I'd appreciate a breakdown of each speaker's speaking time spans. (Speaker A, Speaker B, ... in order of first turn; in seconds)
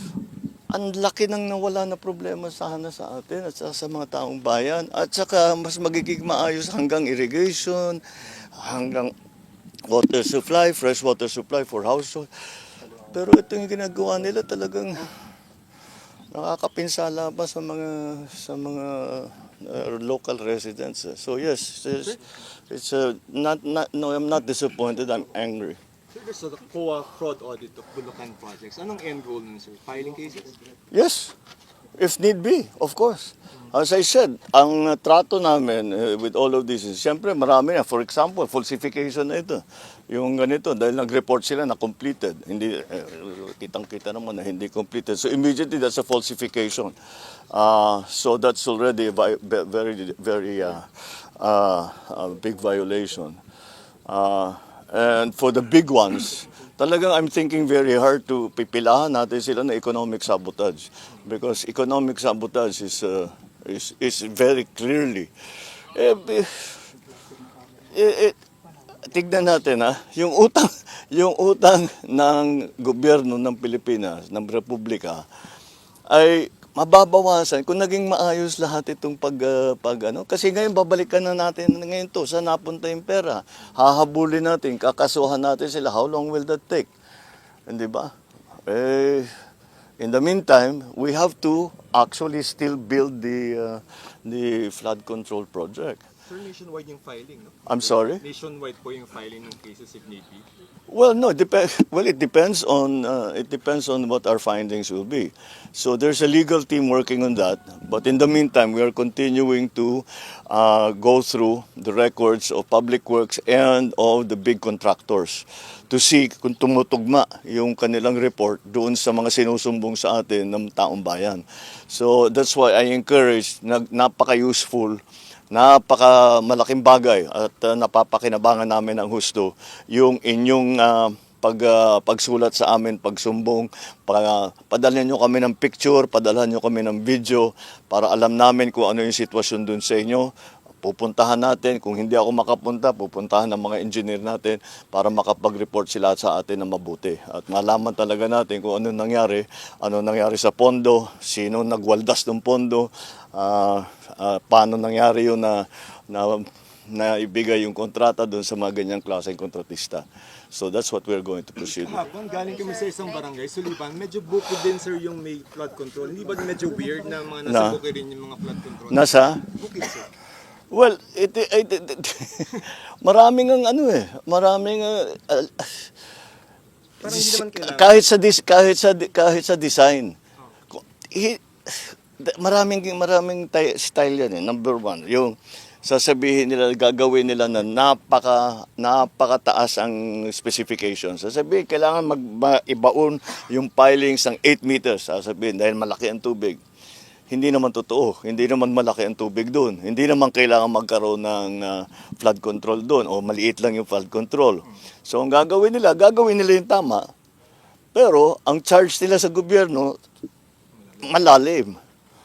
Speaker A: 0.7-8.0, 8.6-9.1, 9.9-12.3, 13.1-15.0, 16.3-22.2, 22.7-25.8, 30.9-31.3, 32.0-46.9, 47.5-50.9, 51.4-53.4, 54.1-65.3, 65.9-66.7, 67.9-68.3, 69.1-75.2, 76.1-86.9, 87.7-88.1, 88.7-89.3, 90.0-96.0, 97.7-98.2, 100.9-125.0, 125.5-140.3, 140.8-162.1, 167.4-167.8, 168.9-169.4, 170.7-175.9, 177.0-180.2, 180.8-196.6, 197.3-207.1, 207.9-210.0, 211.0-211.8
Speaker B: 26.1-30.6, 96.3-100.5, 161.6-170.1, 177.0-178.0